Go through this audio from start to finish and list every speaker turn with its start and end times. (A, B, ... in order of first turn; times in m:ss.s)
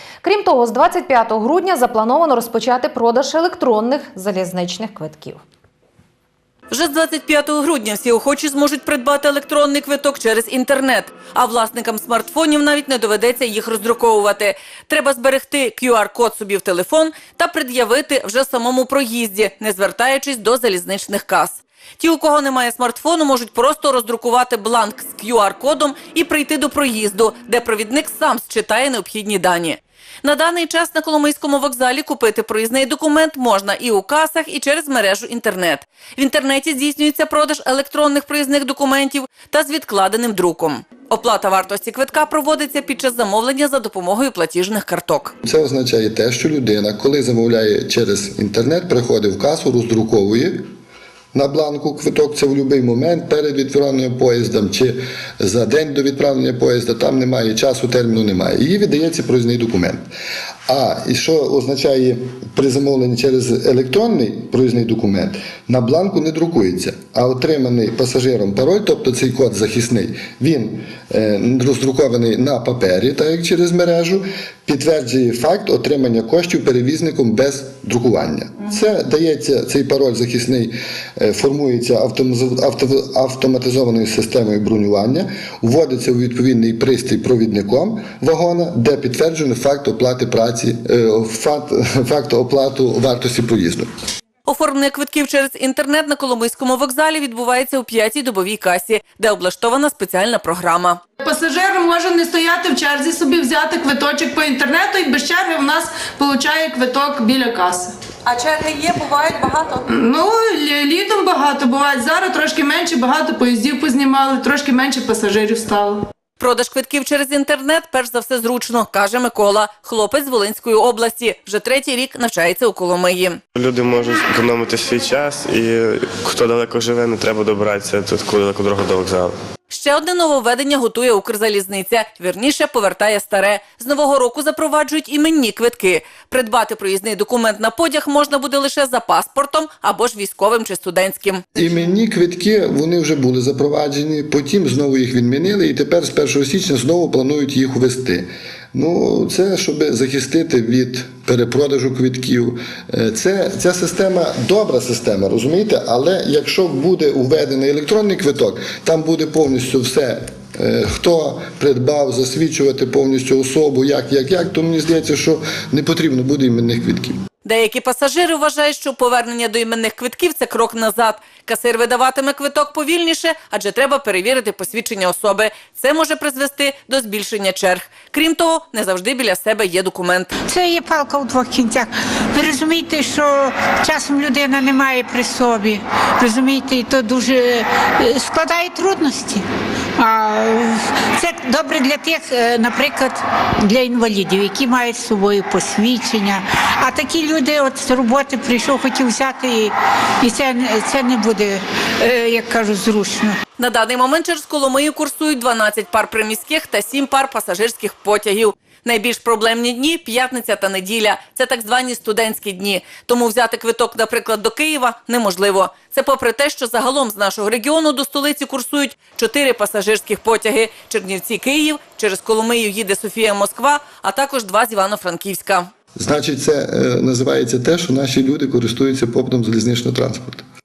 0:00.2-0:05.4 A
0:06.7-0:45.3 B
0:45.4-0:50.6 C
0:51.3-1:00.0 C
1:00.7-1:33.9 C
1:34.4-1:41.0 B
1:41.2-1:47.9 D
1:48.2-1:49.8 B
1:49.9-1:56.0 D
1:56.4-2:03.4 B
2:03.5-2:09.3 E
2:09.7-2:21.4 B
2:21.5-2:47.2 C
2:47.4-3:00.3 B
3:00.4-3:23.4 F
3:23.6-3:45.7 B
3:46.0-3:50.4 C